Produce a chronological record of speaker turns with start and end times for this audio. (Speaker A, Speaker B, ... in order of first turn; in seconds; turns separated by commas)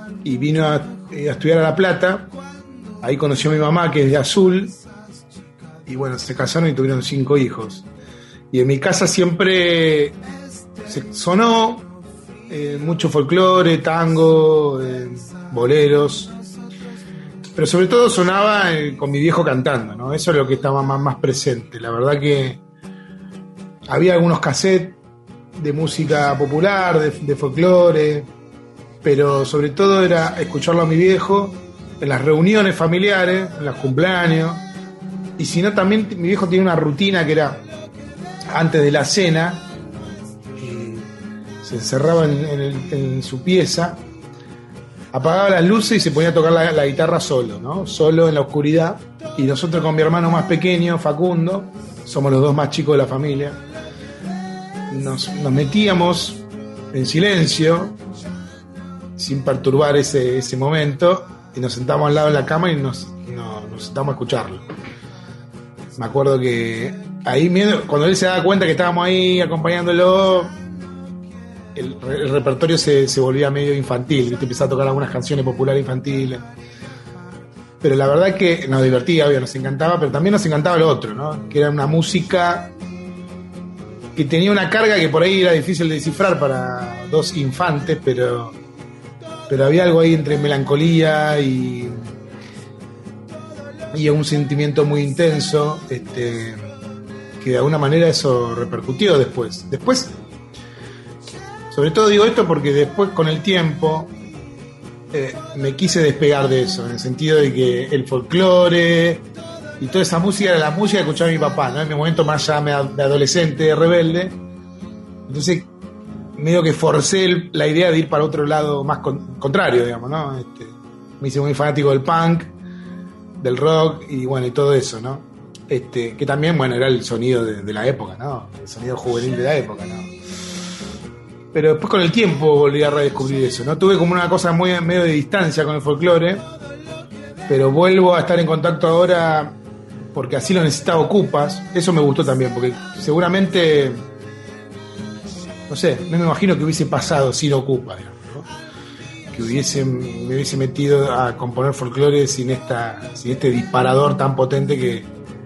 Speaker A: 0.2-2.3, Speaker A: 3.0-4.8, Speaker A: 5.8-7.8, Speaker A: 8.5-10.2, Speaker A: 10.8-11.9, Speaker A: 12.5-16.3, Speaker A: 17.6-22.6, Speaker A: 23.9-25.0, Speaker A: 25.6-28.3, Speaker A: 29.0-34.6, Speaker A: 35.4-37.6, Speaker A: 38.5-39.7, Speaker A: 40.6-41.1, Speaker A: 41.6-44.0, Speaker A: 45.1-53.6, Speaker A: 54.9-58.0, Speaker A: 59.2-64.6, Speaker A: 66.0-70.5, Speaker A: 71.7-76.4, Speaker A: 77.8-82.7, Speaker A: 84.1-88.6, Speaker A: 89.5-92.1, Speaker A: 93.9-96.7, Speaker A: 97.4-100.2, Speaker A: 101.7-104.1, Speaker A: 105.1-109.2, Speaker A: 109.8-114.4, Speaker A: 115.3-115.7, Speaker A: 116.4-122.5, Speaker A: 123.4-130.1, Speaker A: 131.5-136.4, Speaker A: 137.5-139.6, Speaker A: 140.1-144.0, Speaker A: 145.7-148.5, Speaker A: 149.3-155.1